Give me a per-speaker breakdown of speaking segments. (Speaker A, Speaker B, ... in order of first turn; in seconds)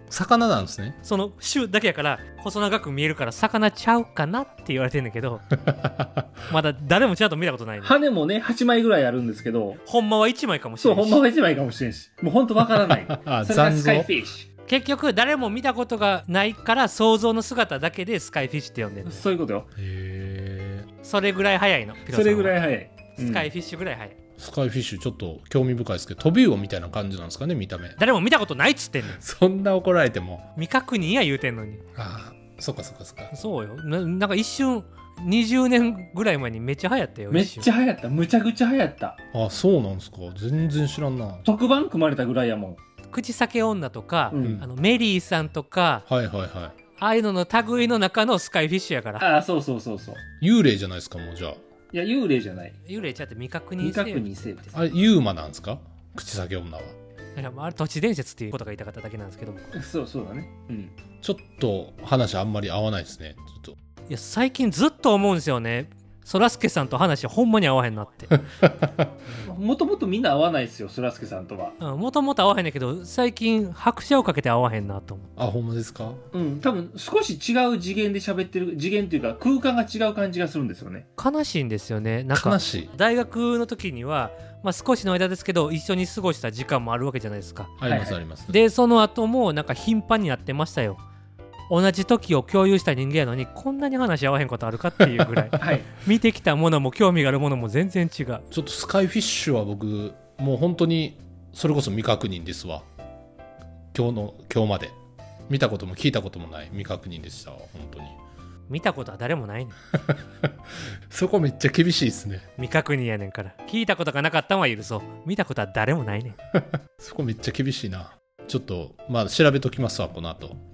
Speaker A: 0.1-1.0, 5.8-6.2, 12.7-14.1, 19.8-20.9, 24.4-28.0, 29.0-30.4, 31.9-33.3, 39.3-41.4, 44.4-44.7, 46.1-46.8, 50.4-51.6, 54.7-56.9, 61.2-63.7, 68.6-68.9, 75.4-76.2, 82.3-82.9, 87.8-88.6, 98.5-102.8, 103.9-104.9, 105.5-108.2, 110.1-110.5, 111.1-112.4, 116.5-120.6
Speaker B: 1.0-5.5, 6.5-7.9, 9.8-11.2, 14.7-19.2, 21.0-22.6, 23.1-24.1, 28.0-29.2, 30.5-31.8, 33.3-37.7, 43.1-46.0, 46.9-49.2, 52.8-54.6, 57.4-59.8, 64.1-68.4, 71.8-75.3, 81.2-87.8, 88.5-91.0, 91.7-98.4, 108.7-109.8, 112.6-116.4
Speaker C: 7.8-9.8, 10.8-14.5, 19.0-19.7, 22.1-23.5, 37.3-39.2, 41.4-42.8, 44.3-44.6, 49.2-50.2, 51.9-52.8, 53.8-54.8, 59.7-60.9, 69.4-71.7, 76.3-81.0, 87.8-88.2, 95.6-95.9